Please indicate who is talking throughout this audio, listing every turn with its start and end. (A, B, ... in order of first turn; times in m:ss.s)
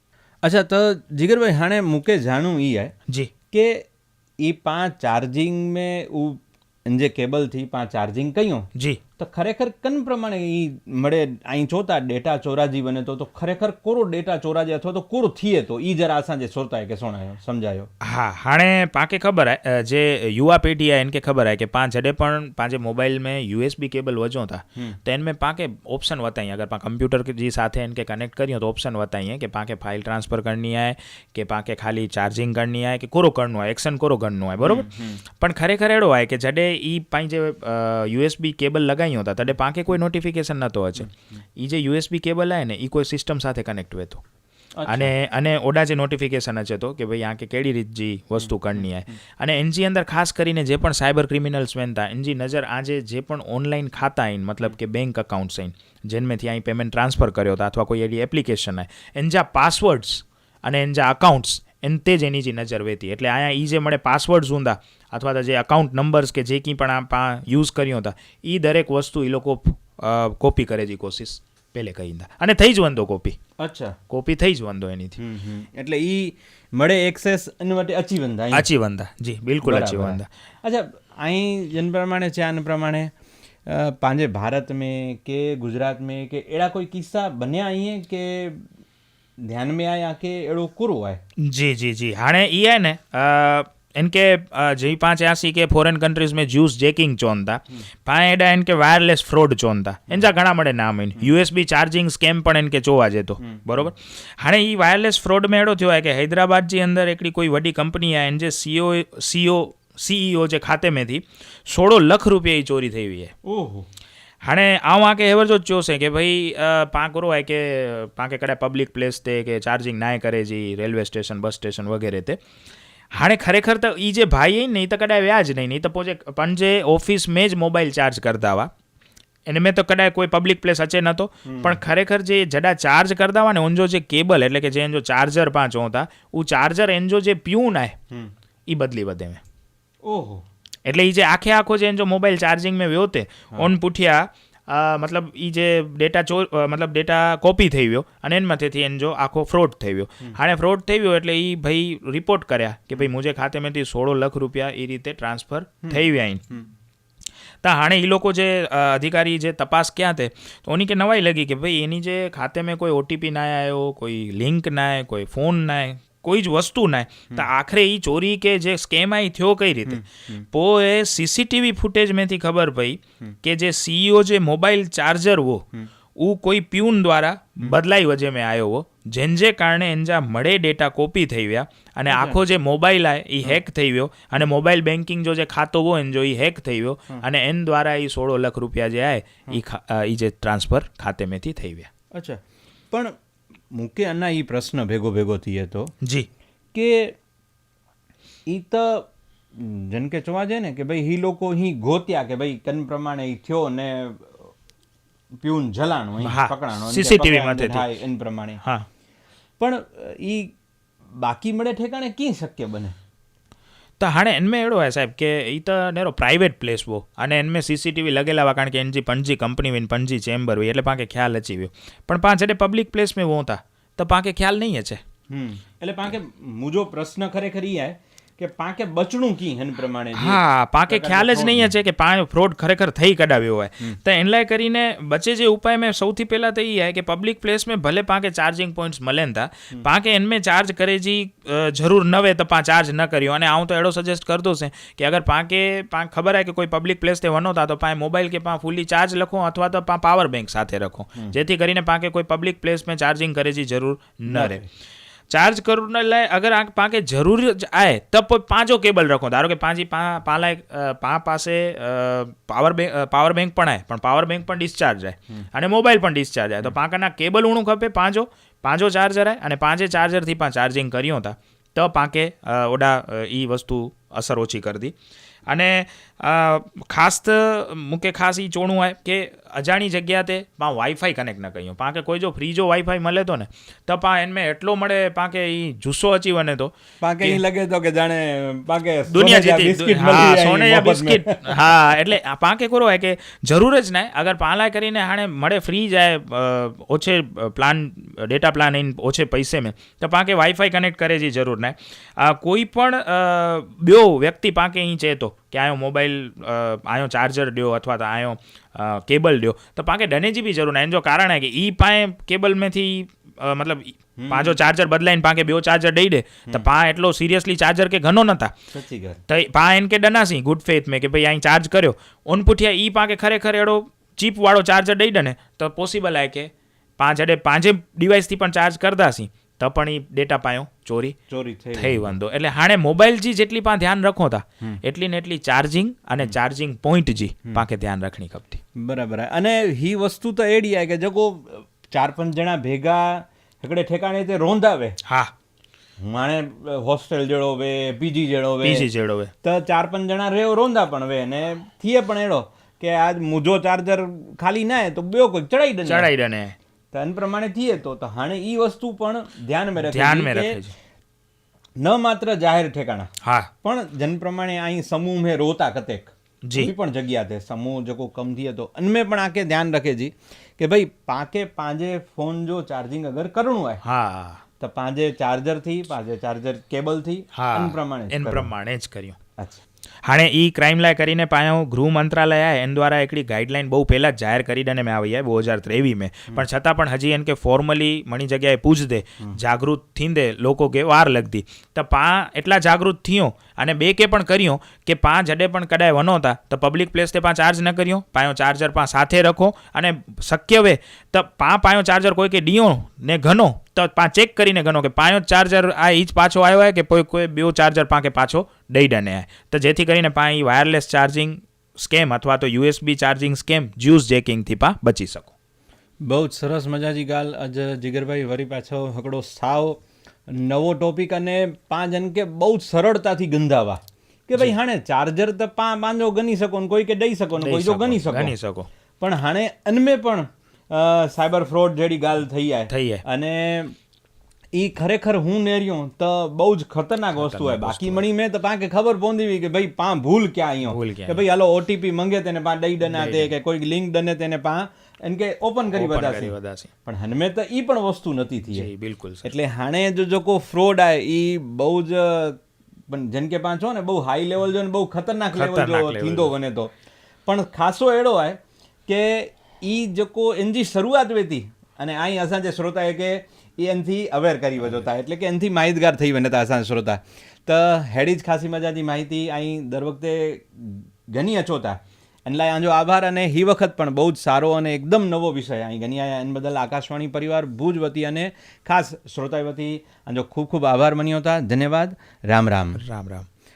0:00.4-0:02.9 A
0:03.5-0:03.9 A
0:04.4-0:17.9 A
0:08.8-0:09.0 B
0:18.0-0:44.2 B
0:34.6-0:35.2 A
0:44.8-0:45.1 A
0:44.9-1:13.4 B
0:48.4-0:49.1 A
1:13.6-1:14.0 A
1:14.1-1:15.2 B
1:15.2-1:18.7 A
1:18.5-1:20.3 B
1:19.6-1:23.1 A
1:23.7-1:28.6 A
1:29.5-1:31.2 A
1:31.4-1:53.3 B
1:43.4-1:43.9 A
1:53.4-1:53.9 A
1:54.4-2:02.4 B
2:03.2-2:08.7 B
2:09.5-2:18.0 B
2:11.5-2:11.8 A
2:18.7-2:19.4 B
2:20.0-2:20.4 A
2:20.8-2:36.4 B
2:35.8-2:36.7 A
2:37.6-3:11.9 B
2:49.9-2:50.4 A
3:02.1-3:02.4 A
3:12.1-3:12.4 A
3:13.7-3:15.9 A
3:16.0-3:16.3 B
3:16.7-3:17.2 A
3:18.5-3:24.4 A
3:25.4-3:28.6 A
3:26.2-3:27.9 B
3:28.6-3:28.9 B
3:29.6-3:30.5 A
3:31.2-3:33.0 A
3:34.0-3:45.0 B
3:45.3-3:51.7 A
3:50.2-4:14.6 B
4:14.3-4:14.6 A
4:15.3-4:35.0 B
4:35.5-4:47.4 B
4:47.0-4:51.4 A
4:49.1-5:18.5 B
5:14.2-5:14.6 A
5:18.7-5:19.2 A
5:19.3-5:31.2 B
5:31.3-5:32.1 A
5:31.8-5:38.6 B
5:38.8-5:45.0 A
5:45.0-5:45.3 B
5:46.0-5:48.9 A
5:48.6-5:49.3 B
5:49.4-5:56.1 A
5:55.9-5:56.6 B
5:56.9-6:00.6 A
5:59.8-6:00.7 B
6:01.8-6:03.1 A
6:03.2-6:03.5 B
6:03.6-6:13.8 A
6:06.4-6:06.7 B
6:13.8-6:14.4 B
6:14.6-6:18.5 A
6:17.4-6:19.2 B
6:19.4-6:19.6 A
6:20.0-6:55.3 B
6:56.0-7:08.3 A
7:07.4-7:08.7 B
7:09.0-7:13.8 A
7:12.7-7:13.0 B
7:14.5-7:26.3 A
7:17.2-7:18.0 B
7:20.6-7:21.2 B
7:22.9-7:23.3 B
7:25.7-7:26.7 B
7:26.9-7:28.7 A
7:28.5-7:29.3 B
7:29.2-7:32.4 A
7:32.9-7:36.7 A
7:35.3-7:36.3 B
7:37.3-8:02.8 A
8:02.8-8:03.3 B